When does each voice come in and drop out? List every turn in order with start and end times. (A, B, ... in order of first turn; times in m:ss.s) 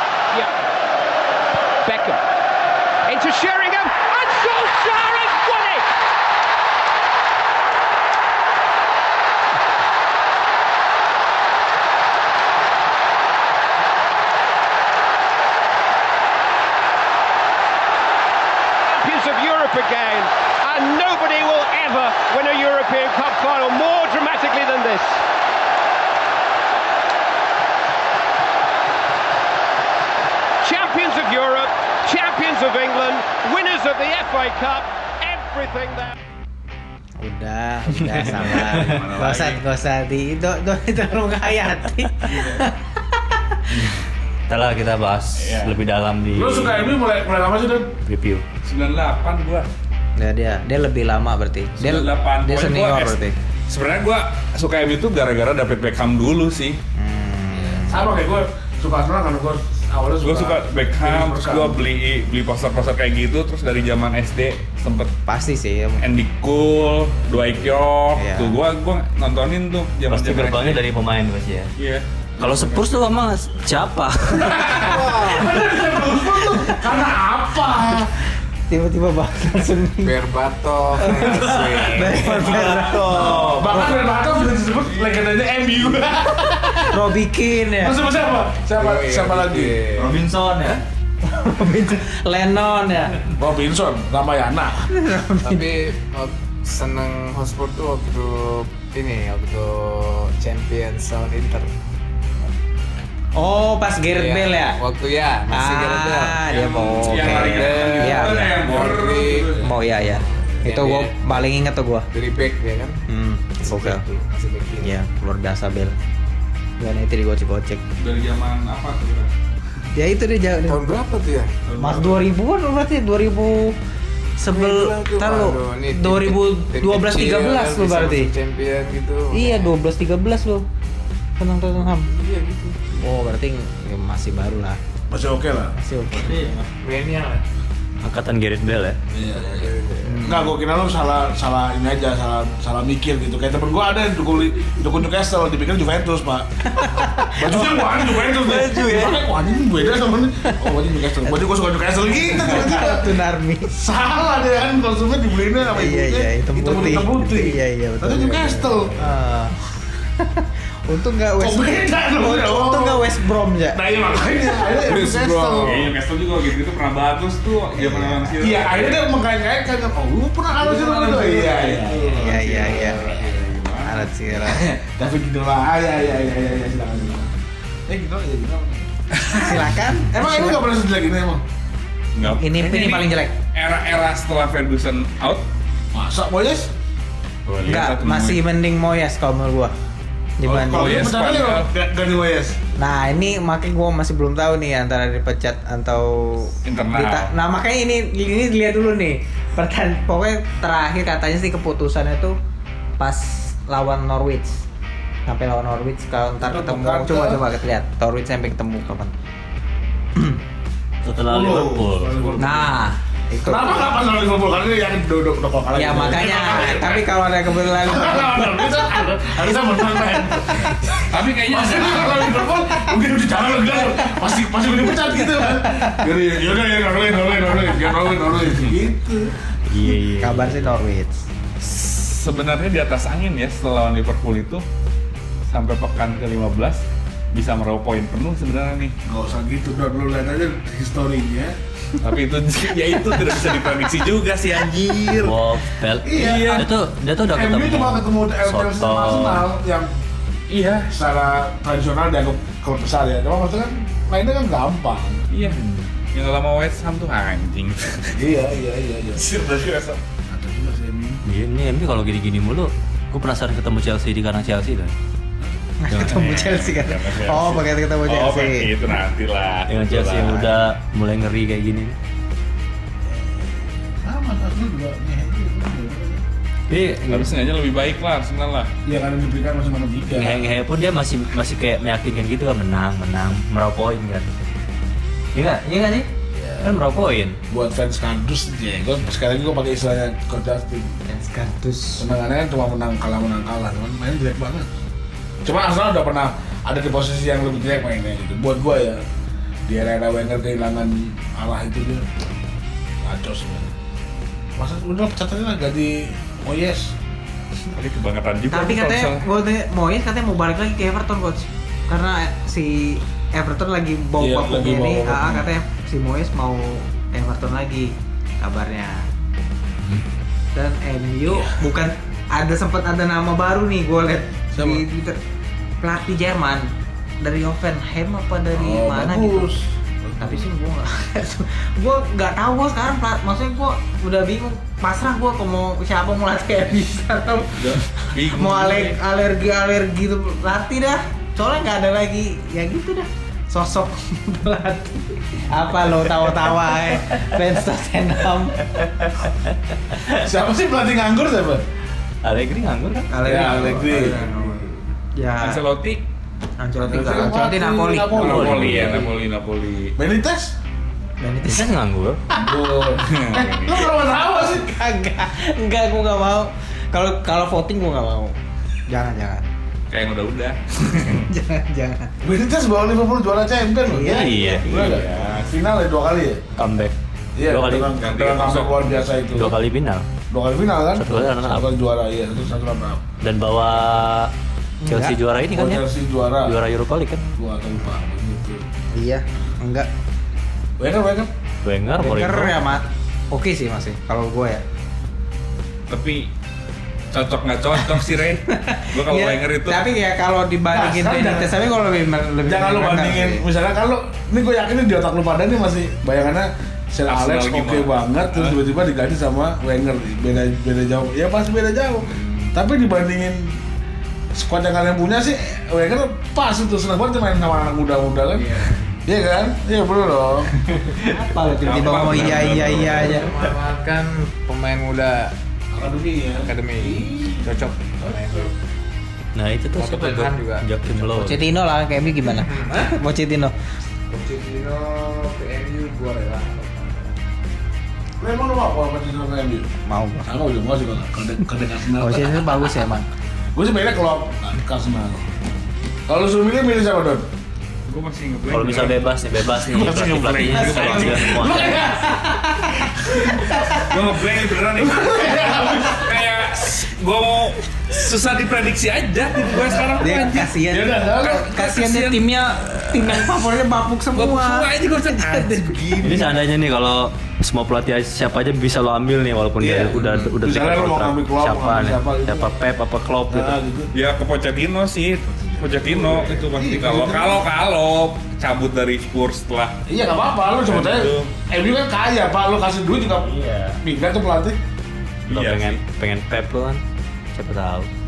0:01.8-0:02.2 A
0:03.0-0:05.9 A
0:18.8-0:25.2 A
0:30.6-0:36.1 A
0:37.2-0:43.6 B
0:38.1-0:39.6 C
0:38.6-0:39.0 D
0:44.5-0:46.9 D
0:45.4-0:45.8 C
0:46.3-0:47.9 E
0:48.0-0:48.4 D
0:48.6-0:49.7 C
0:50.2-0:53.3 B
0:51.8-0:56.8 C
0:57.0-0:58.1 B
0:57.8-1:01.8 E
1:00.2-1:05.1 C
1:05.3-1:06.0 B
1:06.0-1:10.8 C
1:08.2-1:08.6 B
1:10.1-1:11.7 D
1:11.8-1:12.8 C
1:12.4-1:14.8 D
1:14.5-1:15.0 C
1:14.7-1:15.8 B
1:15.1-1:18.1 E
1:16.4-1:16.9 B
1:18.7-1:20.1 B
1:20.0-1:23.5 F
1:21.0-1:23.9 B
1:21.1-1:22.1 C
1:21.3-1:24.0 D
1:23.2-1:27.0 E
1:24.1-1:25.2 C
1:26.8-1:28.0 B
1:27.7-1:29.8 E
1:28.8-1:30.2 F
1:29.9-1:30.8 D
1:31.2-1:33.2 B
1:33.4-1:34.9 E
1:34.9-1:35.7 B
1:35.4-1:41.7 F
1:43.3-1:44.8 B
1:44.1-1:51.4 F
1:45.5-1:48.6 B
1:46.8-1:49.7 C
1:49.6-1:52.1 B
1:52.1-1:53.0 F
1:53.1-1:54.0 B
1:53.6-1:54.9 F
1:54.8-1:55.9 B
1:56.8-1:57.8 B
1:58.0-1:59.3 C
1:59.9-2:00.9 B
2:00.7-2:01.5 F
2:01.6-2:02.3 C
2:01.8-2:03.8 B
2:04.4-2:08.3 B
2:04.5-2:09.7 F
2:09.3-2:10.6 B
2:11.4-2:12.1 B
2:11.8-2:13.0 F
2:13.0-2:14.8 B
2:15.1-2:15.7 E
2:15.8-2:16.5 B
2:16.1-2:16.5 D
2:16.4-2:16.6 C
2:16.8-2:17.4 F
2:18.0-2:19.0 D
2:19.1-2:19.7 E
2:19.3-2:20.3 F
2:20.0-2:20.5 B
2:20.2-2:26.5 E
2:26.6-2:28.2 B
2:27.0-2:39.0 E
2:28.3-2:29.3 D
2:32.1-2:33.7 B
2:35.6-2:39.6 B
2:40.2-2:43.8 B
2:41.4-2:43.1 E
2:43.7-2:45.9 E
2:44.4-2:45.6 B
2:45.0-2:45.8 F
2:45.6-2:49.1 C
2:47.8-2:48.4 B
2:48.4-2:53.5 E
2:51.7-2:54.0 C
2:52.1-2:53.1 B
2:53.8-2:54.6 B
2:54.3-2:57.3 E
2:57.9-2:58.9 E
2:59.2-2:59.6 C
2:59.3-3:00.6 B
3:00.1-3:01.4 E
3:02.1-3:05.4 C
3:02.2-3:03.3 B
3:05.9-3:06.7 E
3:07.5-3:08.4 C
3:07.6-3:09.7 B
3:10.4-3:11.0 B
3:10.4-3:12.6 E
3:10.6-3:11.7 C
3:12.8-3:22.4 B
3:16.6-3:17.3 C
3:23.0-3:24.6 B
3:25.2-3:29.1 B
3:26.4-3:27.4 E
3:31.0-3:32.4 D
3:31.1-3:32.8 E
3:32.4-3:34.0 B
3:33.4-3:37.0 E
3:35.7-3:38.8 B
3:36.2-3:37.0 C
3:37.7-3:40.8 E
3:40.4-3:41.0 B
3:41.1-3:42.4 C
3:41.4-3:50.0 E
3:45.2-3:46.0 B
3:49.7-3:50.6 D
3:50.2-3:51.2 B
3:51.6-3:54.6 C
3:55.5-3:58.9 C
3:59.0-4:01.6 E
4:02.0-4:05.4 C
4:05.1-4:09.5 D
4:06.0-4:06.7 E
4:06.1-4:06.7 C
4:07.3-4:09.9 E
4:10.5-4:10.9 C
4:10.9-4:15.2 E
4:15.3-4:18.2 C
4:15.4-4:15.9 D
4:18.1-4:19.3 E
4:19.1-4:20.0 C
4:20.3-4:21.2 E
4:21.2-4:24.9 D
4:25.8-4:28.7 B
4:25.9-4:30.5 C
4:29.7-4:32.0 D
4:33.1-4:36.2 E
4:36.7-4:37.4 D
4:37.0-4:38.7 C
4:38.8-4:40.4 E
4:40.1-4:44.3 D
4:45.3-4:46.1 D
4:46.3-4:46.7 E
4:46.6-4:47.4 D
4:47.5-4:50.9 E
4:51.1-4:52.1 B
4:52.0-4:54.7 E
4:55.4-4:59.0 E
4:59.6-5:02.1 E
5:03.0-5:03.7 E
5:04.6-5:06.9 E
5:07.7-5:09.2 C
5:08.5-5:19.1 B
5:14.2-5:15.5 E
5:20.5-5:25.2 B
5:21.3-5:21.6 E
5:24.5-5:24.8 E
5:25.8-5:26.7 B
5:27.2-5:29.5 B
5:28.5-5:30.4 E
5:30.2-5:48.6 B
5:37.6-5:39.0 C
5:48.8-5:50.2 D
5:50.1-5:51.6 E
5:52.2-5:53.7 D
5:53.1-5:55.6 B
5:53.2-5:54.2 E
5:54.1-5:54.4 F
5:55.3-5:56.0 C
5:56.6-5:58.4 B
5:56.8-5:58.9 E
5:58.1-5:59.9 C
5:58.2-5:59.1 D
6:00.0-6:00.5 E
6:01.2-6:01.7 B
6:01.4-6:02.2 D
6:02.3-6:02.8 B
6:02.3-6:04.7 E
6:03.0-6:03.9 C
6:04.4-6:08.4 B
6:08.9-6:09.4 B
6:09.9-6:11.3 C
6:11.3-6:12.1 B
6:12.2-6:16.4 E
6:13.8-6:14.6 B
6:14.0-6:14.7 D
6:14.6-6:15.6 C
6:16.6-6:18.0 D
6:17.4-6:19.6 E
6:17.9-6:19.0 C
6:19.3-6:20.1 D
6:20.3-6:23.1 E
6:21.0-6:21.7 D
6:23.2-6:24.3 D
6:24.8-6:25.2 B
6:24.9-6:25.9 D
6:25.5-6:26.6 E
6:26.4-6:27.2 D
6:27.4-6:28.6 E
6:28.9-6:29.9 B
6:30.8-6:31.3 E
6:31.6-6:32.6 D
6:32.0-6:34.6 B
6:35.9-6:36.3 C
6:37.1-6:39.8 C
6:38.5-6:43.4 B
6:40.7-6:41.7 E
6:42.4-6:53.6 E
6:47.1-6:48.6 C
6:54.3-7:00.5 E
6:58.3-6:58.8 F
7:00.6-7:01.0 D
7:01.0-7:03.3 B
7:01.5-7:03.2 C
7:02.9-7:05.3 F
7:05.7-7:08.5 E
7:06.4-7:08.5 F
7:09.3-7:11.4 D
7:09.8-7:10.9 F
7:11.1-7:13.5 B
7:12.3-7:13.0 F
7:14.1-7:17.2 F
7:18.2-7:19.7 E
7:19.8-7:20.3 B
7:20.2-7:22.5 E
7:22.0-7:23.0 B
7:23.5-7:25.2 E
7:26.1-7:27.3 E
7:27.9-7:29.0 C
7:28.5-7:31.8 D
7:29.6-7:32.2 E
7:29.8-7:31.4 C
7:30.6-7:33.9 B
7:32.8-7:33.4 E
7:33.7-7:40.6 C
7:34.7-7:36.1 E
7:40.0-7:46.1 B
7:40.7-7:41.5 E
7:41.2-7:42.2 C
7:42.9-7:43.4 C
7:44.1-7:46.2 C
7:46.0-7:53.6 D
7:49.6-7:52.5 E
7:53.3-7:53.9 E
7:53.9-7:59.8 C
7:55.9-7:57.4 E
7:59.9-8:04.6 E
8:00.6-8:01.3 C
8:03.0-8:03.8 D
8:05.3-8:05.8 C
8:05.3-8:06.8 D
8:07.3-8:07.9 D